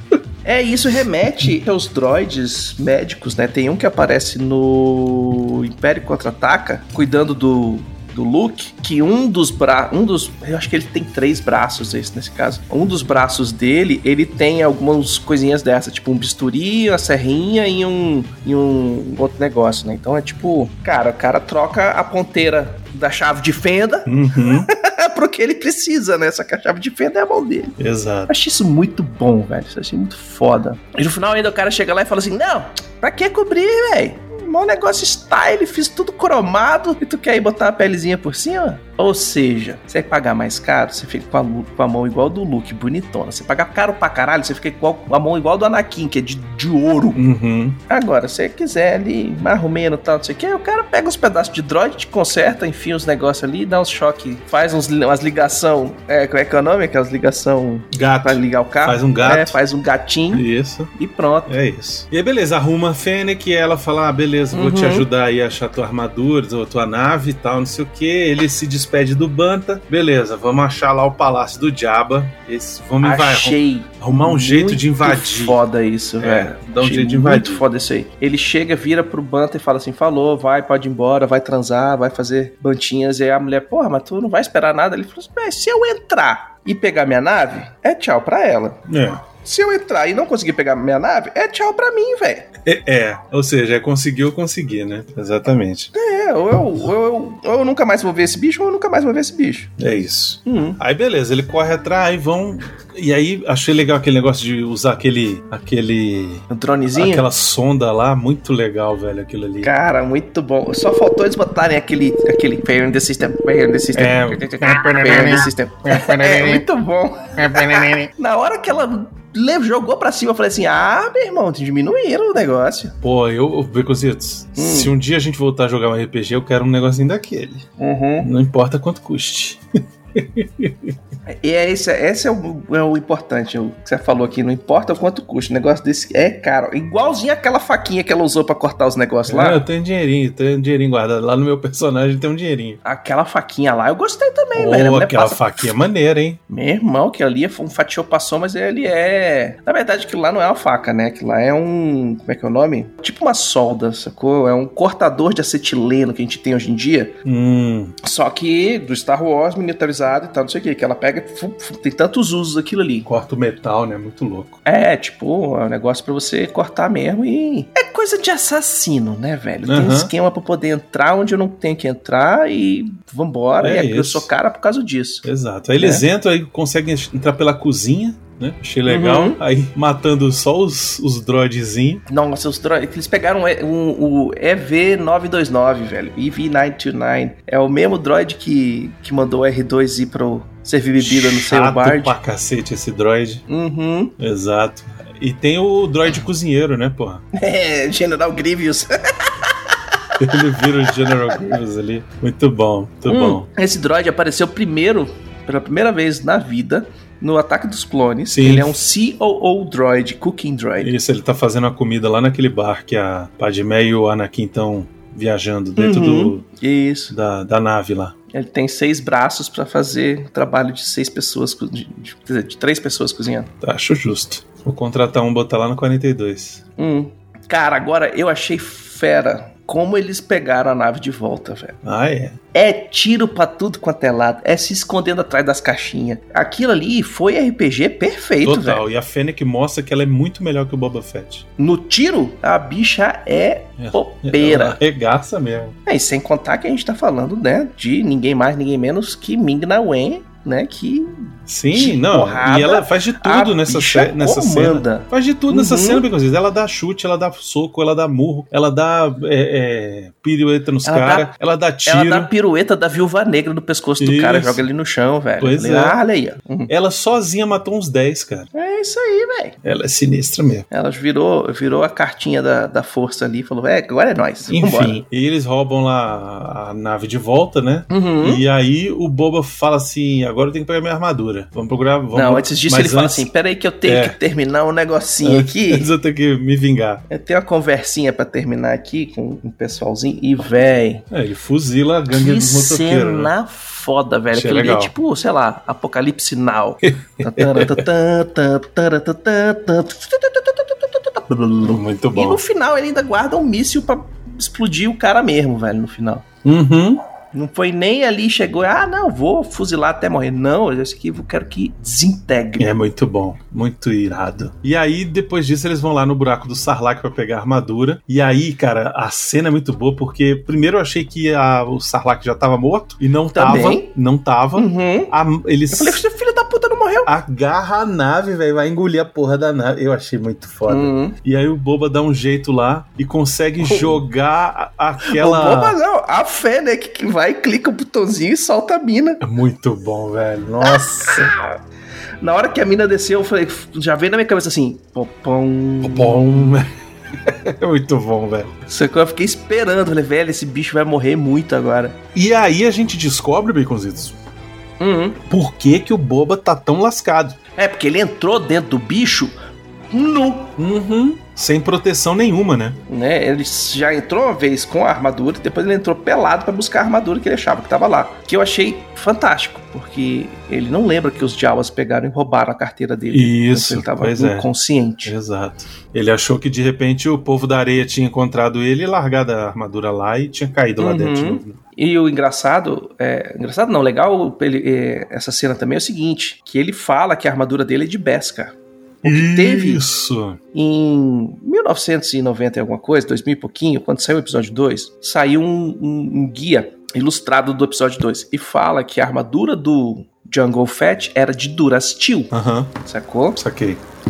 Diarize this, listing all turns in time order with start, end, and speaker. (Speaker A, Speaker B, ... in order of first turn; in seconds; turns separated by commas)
Speaker A: 0.4-27.8, Speaker B: 24.1-24.7, Speaker B: 27.8-28.3, Speaker A: 28.3-47.2, Speaker B: 47.2-47.8, Speaker A: 47.9-61.5, Speaker B: 57.9-59.6, Speaker B: 60.3-60.9, Speaker B: 61.5-75.6, Speaker A: 64.5-65.1, Speaker A: 73.0-88.8, Speaker B: 76.2-77.7, Speaker B: 88.9-89.2, Speaker A: 89.4-92.5, Speaker B: 92.7-95.9, Speaker A: 95.9-99.7, Speaker B: 99.8-109.7, Speaker A: 100.5-100.8, Speaker A: 106.5-107.2, Speaker A: 109.6-122.9, Speaker B: 113.9-116.7, Speaker B: 117.4-118.1, Speaker B: 123.0-127.7, Speaker A: 124.6-124.9, Speaker A: 127.8-128.3, Speaker B: 128.2-129.6, Speaker B: 130.2-130.9, Speaker A: 131.2-139.6, Speaker B: 139.3-142.8, Speaker A: 142.8-145.7, Speaker B: 144.6-146.4, Speaker A: 146.5-157.2, Speaker B: 157.2-157.9, Speaker A: 158.0-163.1, Speaker B: 163.1-164.6, Speaker A: 164.7-175.2, Speaker B: 169.7-170.1, Speaker B: 173.6-174.3, Speaker B: 175.2-182.1, Speaker A: 175.8-176.1, Speaker A: 178.9-179.4, Speaker A: 182.1-192.2, Speaker B: 191.0-193.4, Speaker A: 193.5-194.2, Speaker B: 194.2-197.2, Speaker A: 197.3-201.6, Speaker B: 200.2-203.5, Speaker A: 203.1-210.9, Speaker B: 208.3-208.7, Speaker B: 210.8-216.4, Speaker A: 215.8-217.1, Speaker B: 217.1-218.2, Speaker A: 218.3-223.5, Speaker B: 223.6-226.6, Speaker A: 226.8-231.8, Speaker B: 231.8-232.4, Speaker A: 232.5-238.8, Speaker B: 238.4-241.4, Speaker A: 241.6-244.8, Speaker B: 243.8-245.8, Speaker A: 245.8-256.1, Speaker B: 251.5-262.3, Speaker A: 260.8-261.3, Speaker A: 261.9-266.7, Speaker B: 264.0-264.7, Speaker B: 265.4-266.0, Speaker B: 266.7-268.5, Speaker A: 268.5-269.6, Speaker B: 269.6-270.7, Speaker A: 270.7-275.0, Speaker B: 274.4-283.3, Speaker A: 277.9-278.4, Speaker A: 282.1-285.9, Speaker B: 283.8-284.2, Speaker B: 285.2-287.0, Speaker A: 287.1-291.1, Speaker B: 291.1-293.3, Speaker A: 292.1-306.2, Speaker B: 294.3-294.9, Speaker B: 296.8-297.8, Speaker B: 301.6-302.4, Speaker B: 306.4-307.0, Speaker A: 307.3-312.7, Speaker B: 312.6-326.0, Speaker A: 323.3-323.9, Speaker A: 324.6-325.1, Speaker A: 325.7-327.1, Speaker B: 327.1-335.8, Speaker A: 330.7-331.2, Speaker A: 333.6-334.0, Speaker A: 335.0-339.2, Speaker B: 339.2-341.3, Speaker A: 340.6-341.5, Speaker A: 342.2-346.4, Speaker B: 345.8-348.5, Speaker A: 348.7-352.0, Speaker B: 352.1-354.2, Speaker A: 354.8-355.2, Speaker B: 355.3-357.4, Speaker A: 357.6-359.3, Speaker A: 359.9-360.6, Speaker B: 360.6-362.8, Speaker A: 362.9-375.1, Speaker B: 373.1-374.5, Speaker B: 375.0-381.6, Speaker A: 380.8-389.8, Speaker B: 389.0-390.4, Speaker A: 390.5-402.3, Speaker B: 402.3-402.8, Speaker A: 402.9-403.4, Speaker B: 403.4-403.8